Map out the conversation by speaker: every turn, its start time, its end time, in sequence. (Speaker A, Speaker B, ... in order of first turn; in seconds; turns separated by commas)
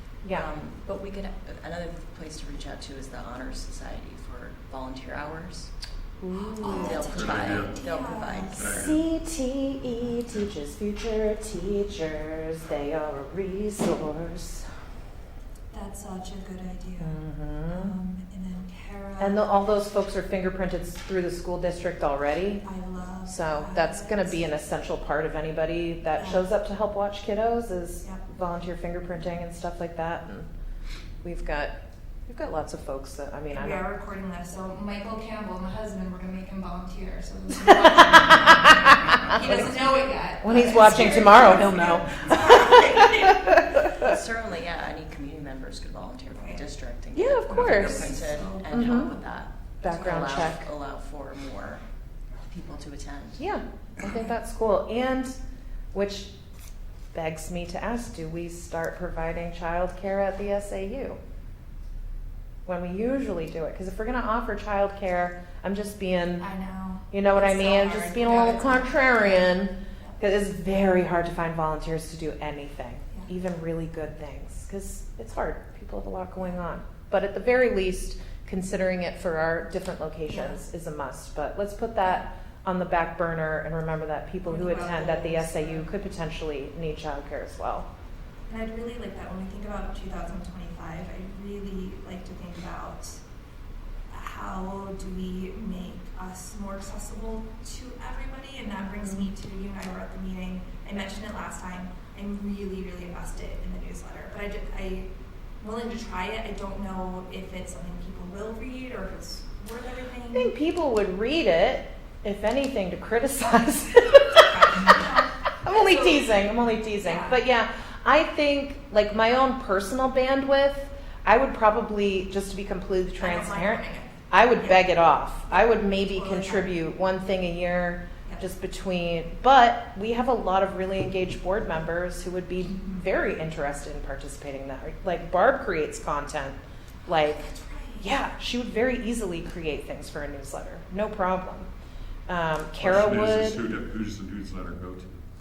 Speaker A: 0.2-0.5, Speaker B: 0.3-5.7, Speaker A: 6.2-7.0, Speaker C: 6.3-8.8, Speaker B: 6.7-8.8, Speaker D: 6.8-7.8, Speaker D: 8.5-9.1, Speaker A: 8.7-14.7, Speaker C: 15.7-19.5, Speaker A: 17.0-17.9, Speaker A: 19.2-22.6, Speaker C: 22.6-24.5, Speaker A: 23.3-30.5, Speaker C: 26.1-26.5, Speaker A: 31.2-31.7, Speaker A: 32.3-33.8, Speaker C: 33.5-43.6, Speaker A: 37.6-39.6, Speaker A: 40.4-44.1, Speaker B: 44.0-51.8, Speaker C: 46.3-46.6, Speaker A: 47.1-48.1, Speaker C: 47.5-49.0, Speaker A: 48.7-49.1, Speaker A: 49.8-50.7, Speaker C: 49.9-50.2, Speaker B: 52.5-53.4, Speaker A: 53.4-55.4, Speaker C: 54.0-54.3, Speaker A: 55.9-56.3, Speaker A: 57.1-61.2, Speaker A: 62.6-66.5, Speaker C: 66.4-70.2, Speaker A: 67.1-87.9, Speaker C: 80.3-80.6, Speaker C: 84.4-85.9, Speaker C: 88.5-93.2, Speaker C: 94.1-105.1, Speaker C: 105.6-110.5, Speaker A: 110.3-114.9, Speaker C: 114.3-117.4, Speaker A: 115.6-141.7, Speaker C: 123.2-126.8, Speaker C: 132.6-133.0, Speaker C: 137.1-138.2, Speaker A: 142.3-143.6, Speaker D: 142.8-145.2